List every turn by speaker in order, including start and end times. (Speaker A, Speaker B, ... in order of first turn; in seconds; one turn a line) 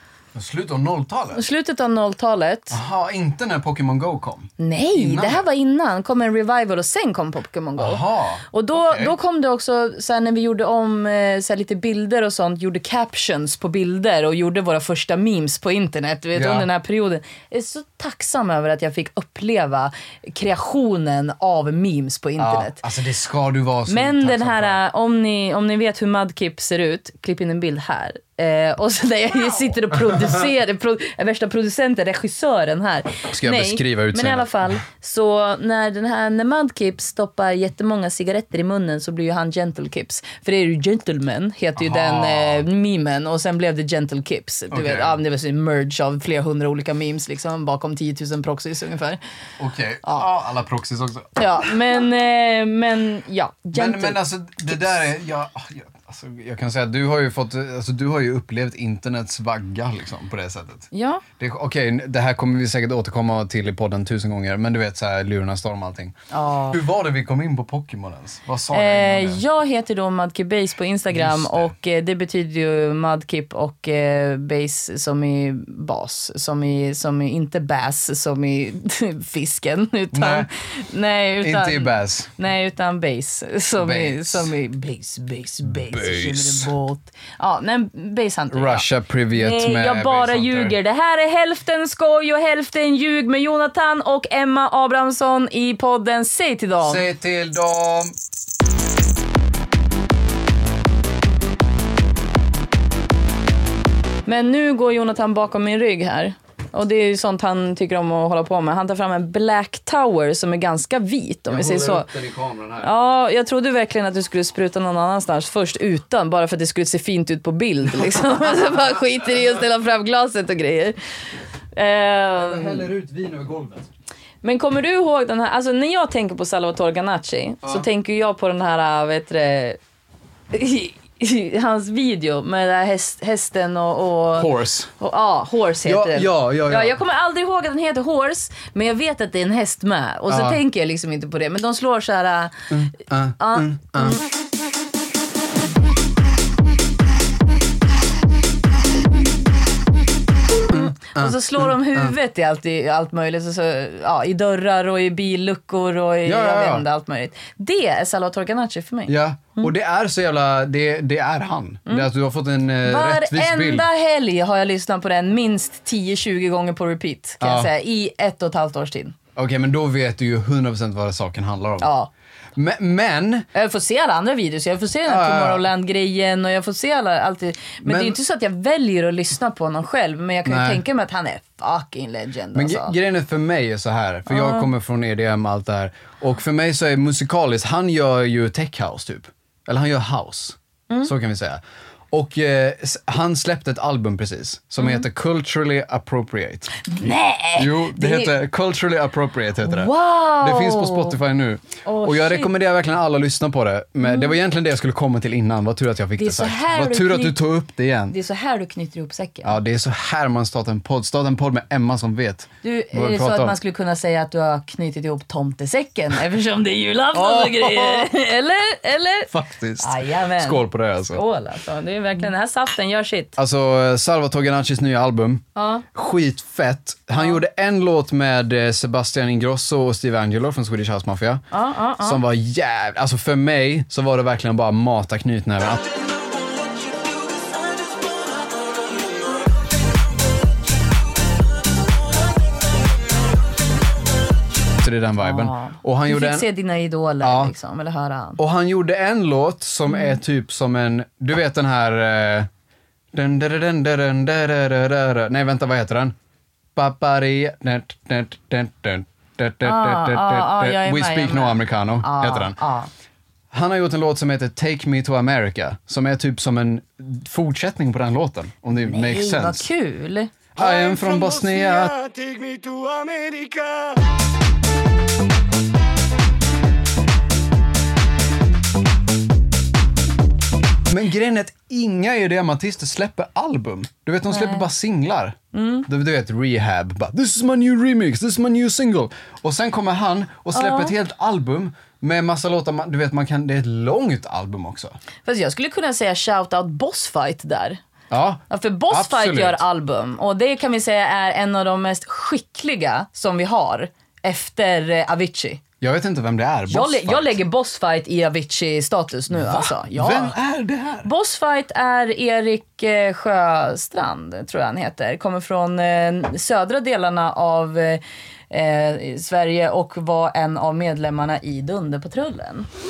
Speaker A: 0.3-1.4
Speaker B: 1.3-2.8
Speaker A: 2.7-5.4
Speaker B: 4.6-22.8
Speaker A: 7.8-9.1
Speaker A: 16.4-16.7
Speaker A: 22.4-24.8
Speaker B: 23.9-49.2
Speaker A: 33.3-34.8
Speaker A: 41.8-42.6
Speaker A: 44.7-45.2
Speaker A: 49.6-51.8
Speaker B: 51.4-55.0
Speaker A: 53.7-66.1
Speaker B: 60.9-61.2
Speaker B: 66.3-66.8
Speaker A: 66.7-69.4
Speaker B: 68.7-97.0
Speaker A: 71.1-71.7
Speaker A: 80.1-80.5
Speaker A: 81.4-82.3
Speaker A: 83.8-84.5
Speaker A: 85.7-86.7
Speaker A: 88.5-90.7
Speaker A: 96.8-98.2
Speaker B: 104.2-112.1
Speaker A: 111.5-112.9
Speaker B: 112.8-121.0
Speaker B: 121.7-122.9
Speaker A: 122.4-123.9
Speaker B: 124.4-129.8
Speaker B: 130.5-142.7
Speaker A: 134.4-134.9
Speaker A: 135.8-136.9
Speaker A: 140.3-140.6
Speaker A: 142.7-144.2
Speaker B: 143.4-144.2
Speaker B: 150.7-159.7
Speaker A: 150.7-152.1
Speaker A: 156.2-156.8
Speaker A: 159.1-163.9
Speaker B: 162.8-169.1
Speaker A: 167.4-167.7
Speaker A: 169.4-171.9
Speaker B: 171.8-172.1
Speaker A: 172.6-173.5
Speaker B: 173.5-182.9
Speaker A: 175.1-175.7
Speaker A: 177.8-178.2
Speaker A: 180.4-180.8
Speaker A: 182.5-196.7
Speaker B: 184.3-184.7
Speaker B: 196.8-198.3
Speaker A: 197.6-208.1
Speaker B: 199.6-201.2
Speaker B: 201.8-202.5
Speaker B: 204.0-204.3
Speaker B: 206.2-207.4
Speaker B: 208.1-209.6
Speaker A: 209.4-213.6
Speaker B: 212.6-223.3
Speaker A: 217.1-218.1
Speaker A: 219.3-221.2
Speaker A: 223.4-231.4
Speaker B: 225.6-225.8
Speaker B: 231.5-232.2
Speaker A: 232.0-235.8
Speaker A: 244.8-246.5
Speaker B: 245.2-248.4
Speaker A: 247.2-247.5
Speaker A: 248.4-252.5
Speaker B: 249.9-250.2
Speaker A: 253.1-256.1
Speaker A: 256.8-262.6
Speaker B: 259.6-262.9
Speaker A: 263.5-269.7
Speaker B: 268.8-270.4
Speaker A: 270.6-271.9
Speaker C: 270.6-274.0
Speaker A: 280.9-294.9
Speaker B: 284.3-284.6
Speaker B: 285.5-285.9
Speaker B: 290.5-290.9
Speaker B: 295.2-297.8
Speaker A: 298.1-299.6
Speaker B: 298.5-305.6
Speaker A: 305.8-307.4
Speaker B: 306.7-310.4
Speaker A: 309.3-311.1
Speaker B: 311.0-322.7